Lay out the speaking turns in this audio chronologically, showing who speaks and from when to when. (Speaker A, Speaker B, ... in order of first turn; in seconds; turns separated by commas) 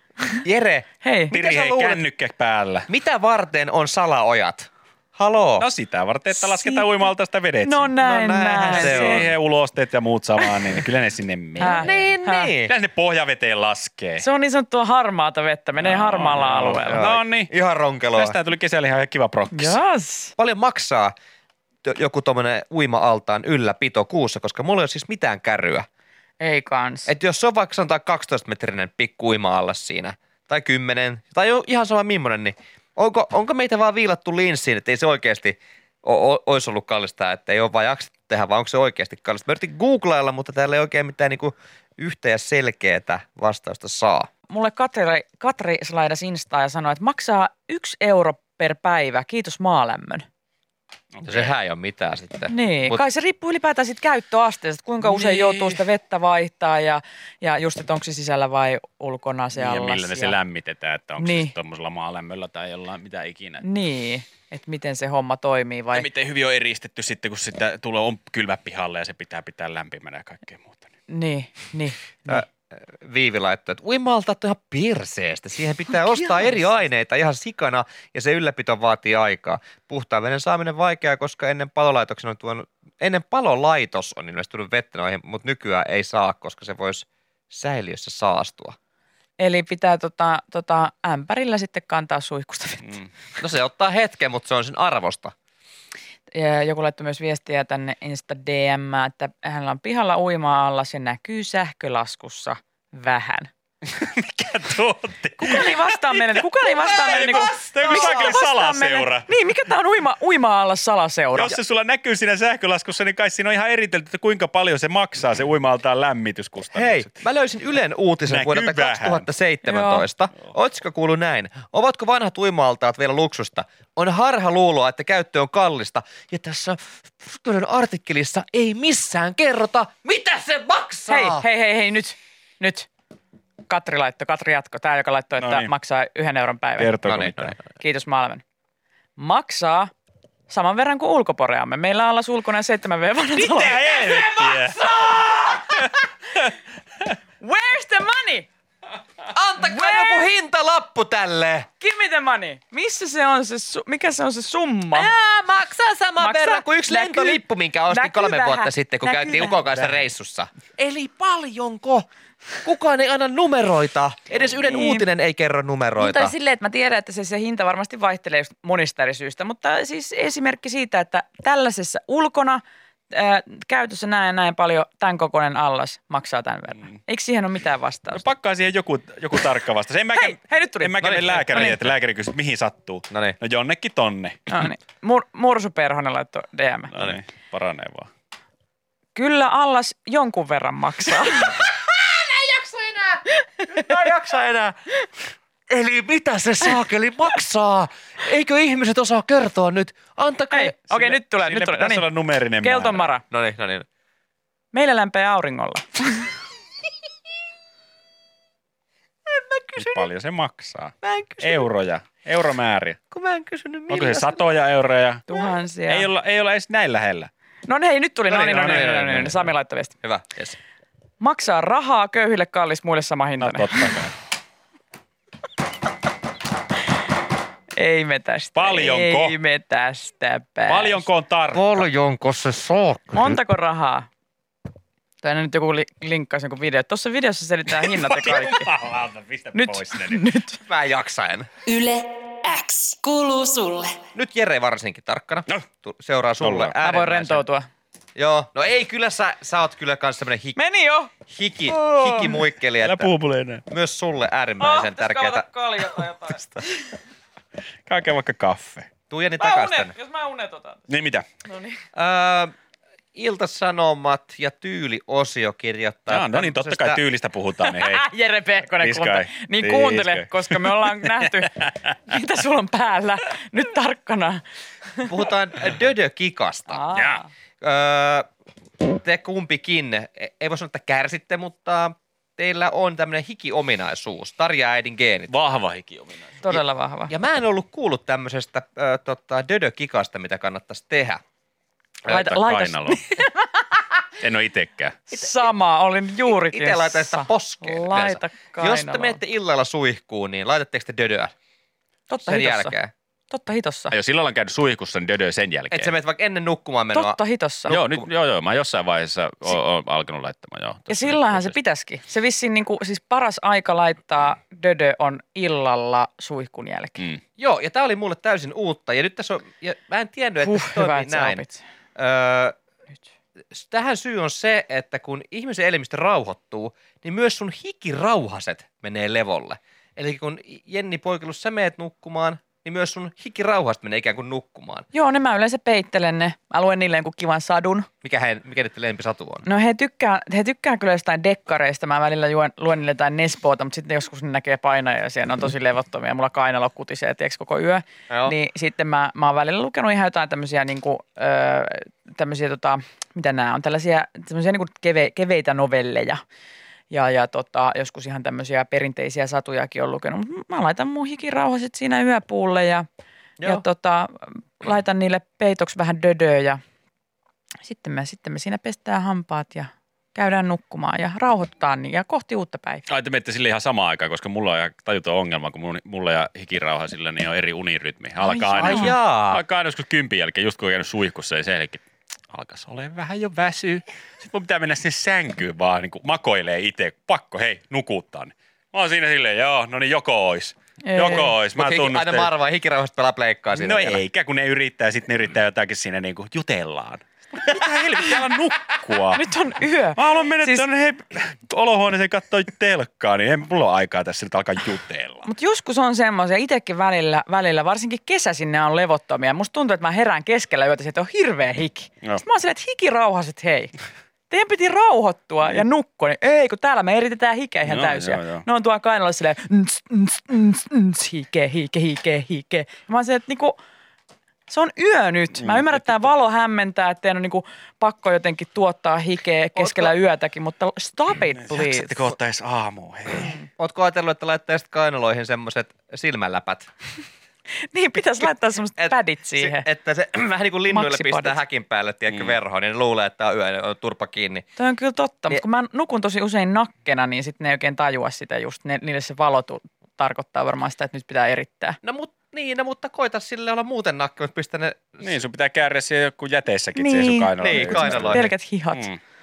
Speaker A: 0.4-2.0, Speaker B: 1.0-1.3, Speaker C: 1.3-2.9, Speaker A: 2.9-5.7, Speaker C: 5.6-7.9, Speaker B: 6.3-7.0, Speaker B: 7.6-9.2, Speaker A: 8.0-9.3, Speaker C: 8.7-12.1, Speaker B: 11.6-12.5, Speaker A: 11.6-12.7, Speaker C: 12.7-14.2, Speaker B: 14.2-17.1, Speaker C: 15.8-17.5, Speaker A: 16.8-18.4, Speaker C: 18.2-19.8, Speaker B: 19.5-20.3, Speaker A: 20.4-21.1, Speaker A: 21.9-25.9, Speaker B: 26.4-27.1, Speaker A: 27.1-44.3, Speaker B: 44.5-50.2, Speaker C: 51.1-51.5, Speaker A: 51.2-53.0, Speaker B: 52.5-60.4, Speaker C: 55.0-55.8, Speaker C: 59.5-63.6, Speaker B: 61.2-61.5, Speaker B: 63.6-66.1, Speaker C: 65.9-70.9, Speaker B: 71.1-72.5, Speaker A: 73.0-88.8, Speaker B: 76.1-76.7, Speaker B: 89.4-92.9, Speaker A: 93.4-95.3, Speaker B: 96.3-103.5, Speaker C: 103.8-109.3, Speaker B: 105.4-111.6, Speaker A: 107.1-108.3, Speaker C: 111.3-117.1, Speaker A: 116.7-131.4, Speaker C: 118.3-119.3, Speaker B: 119.7-120.0, Speaker B: 131.1-132.9, Speaker B: 133.7-136.9, Speaker C: 135.4-135.7, Speaker C: 136.8-137.6, Speaker A: 137.1-137.6, Speaker B: 137.7-138.4, Speaker B: 139.2-139.9, Speaker B: 140.5-145.8, Speaker C: 143.4-144.9, Speaker A: 144.2-145.6, Speaker C: 145.7-146.5, Speaker B: 147.4-148.5, Speaker A: 149.3-151.7, Speaker B: 149.6-150.3, Speaker B: 151.8-155.1, Speaker A: 154.9-162.1, Speaker B: 156.2-159.9, Speaker A: 162.6-166.3, Speaker B: 164.7-165.1, Speaker B: 166.0-178.2, Speaker C: 178.1-184.6, Speaker B: 180.1-181.8, Speaker A: 181.0-181.6, Speaker A: 183.1-183.4, Speaker B: 184.5-186.9, Speaker C: 186.9-188.1, Speaker B: 189.2-191.7, Speaker A: 191.3-194.8, Speaker A: 195.7-200.7, Speaker B: 200.5-202.1, Speaker C: 200.9-203.1, Speaker B: 202.6-203.2, Speaker A: 203.3-203.9, Speaker B: 204.7-206.3, Speaker A: 209.3-210.1, Speaker C: 209.8-213.0, Speaker A: 211.0-211.7, Speaker A: 213.1-214.4, Speaker C: 213.9-217.3, Speaker B: 215.3-216.1, Speaker B: 217.7-219.9, Speaker A: 218.3-219.4, Speaker C: 218.9-219.4, Speaker A: 220.0-220.6, Speaker B: 221.2-223.9, Speaker C: 223.4-224.1, Speaker B: 227.8-231.1, Speaker C: 228.5-229.4, Speaker C: 230.7-231.9, Speaker A: 231.5-233.4, Speaker B: 233.1-234.1, Speaker B: 235.2-238.7, Speaker C: 237.7-240.2, Speaker B: 239.5-240.6, Speaker A: 240.7-241.5, Speaker D: 241.7-244.0, Speaker A: 244.2-247.4, Speaker C: 246.4-246.8, Speaker B: 246.8-247.7, Speaker A: 248.2-250.6, Speaker B: 250.6-251.1, Speaker A: 251.3-253.1, Speaker C: 252.8-253.6, Speaker A: 253.7-255.5, Speaker B: 254.6-256.9, Speaker C: 257.9-258.9, Speaker A: 259.1-259.9, Speaker B: 259.4-260.9, Speaker C: 260.9-261.3, Speaker B: 261.4-261.8, Speaker A: 261.9-262.5, Speaker A: 263.1-267.0, Speaker C: 266.1-268.1, Speaker B: 267.6-274.4, Speaker C: 268.8-271.9, Speaker A: 275.0-276.8, Speaker B: 276.7-277.3, Speaker C: 276.9-277.2, Speaker A: 277.6-278.3, Speaker A: 279.0-285.3, Speaker C: 285.3-286.5, Speaker B: 286.4-287.1, Speaker A: 287.1-291.2, Speaker C: 292.1-293.2, Speaker B: 292.1-293.6, Speaker C: 294.2-295.0, Speaker B: 295.1-299.2, Speaker A: 296.3-301.3, Speaker B: 302.1-302.8, Speaker A: 302.2-302.9, Speaker B: 303.3-303.9, Speaker C: 303.9-305.9, Speaker A: 305.7-308.1, Speaker B: 306.9-307.7, Speaker C: 307.7-311.6, Speaker B: 310.9-317.1, Speaker A: 317.4-321.4, Speaker B: 320.4-321.6, Speaker A: 322.0-322.6, Speaker A: 323.5-334.9, Speaker B: 334.9-337.9, Speaker A: 338.0-339.4, Speaker B: 339.4-356.2, Speaker B: 356.9-362.9, Speaker B: 363.4-366.6, Speaker B: 367.6-372.9, Speaker C: 372.9-392.3, Speaker B: 378.2-378.9, Speaker A: 378.6-379.4, Speaker B: 390.8-391.3, Speaker A: 391.5-394.0, Speaker C: 393.5-399.2, Speaker B: 399.1-400.6, Speaker C: 400.0-405.3, Speaker B: 405.2-413.7, Speaker B: 414.3-423.6, Speaker C: 417.7-418.4, Speaker B: 424.5-432.1, Speaker C: 425.4-425.9, Speaker A: 429.6-429.9, Speaker C: 431.4-433.4, Speaker A: 433.3-436.7, Speaker B: 437.7-439.6, Speaker A: 438.8-444.4, Speaker B: 440.7-441.4, Speaker C: 442.1-442.4, Speaker B: 444.6-451.8, Speaker A: 451.8-455.0, Speaker C: 455.0-459.0, Speaker B: 456.8-458.9, Speaker A: 457.4-458.3